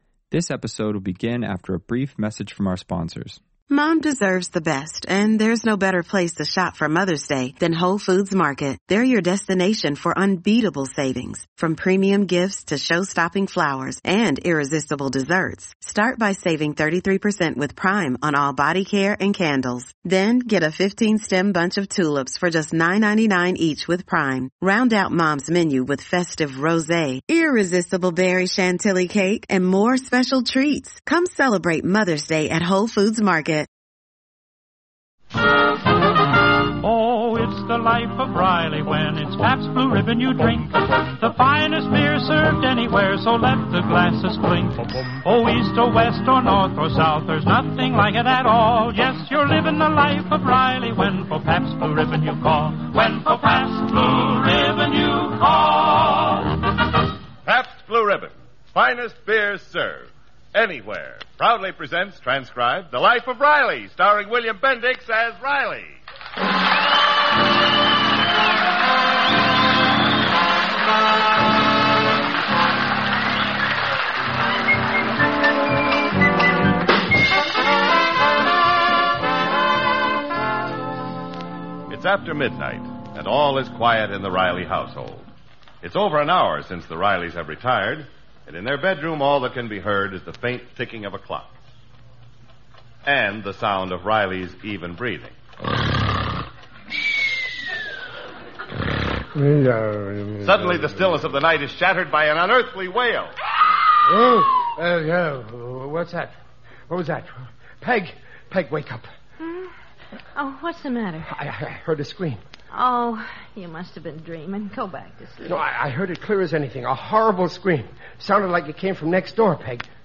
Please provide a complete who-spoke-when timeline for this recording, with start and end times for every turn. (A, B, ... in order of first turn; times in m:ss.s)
0:00.3-0:03.4 A
0:03.7-0:33.7 B
0:36.8-0:56.5 C
0:57.4-1:06.0 D
1:21.9-1:25.3 D
1:25.8-1:31.5 D
1:33.0-1:35.3 D
1:39.3-1:41.2 E
1:40.4-1:43.3 D
1:44.0-1:46.3 E
1:46.9-1:49.1 E
1:49.4-1:49.7 F
1:50.3-1:51.3 F
1:51.3-1:52.4 E
1:52.7-1:55.6 F
1:55.4-1:59.8 E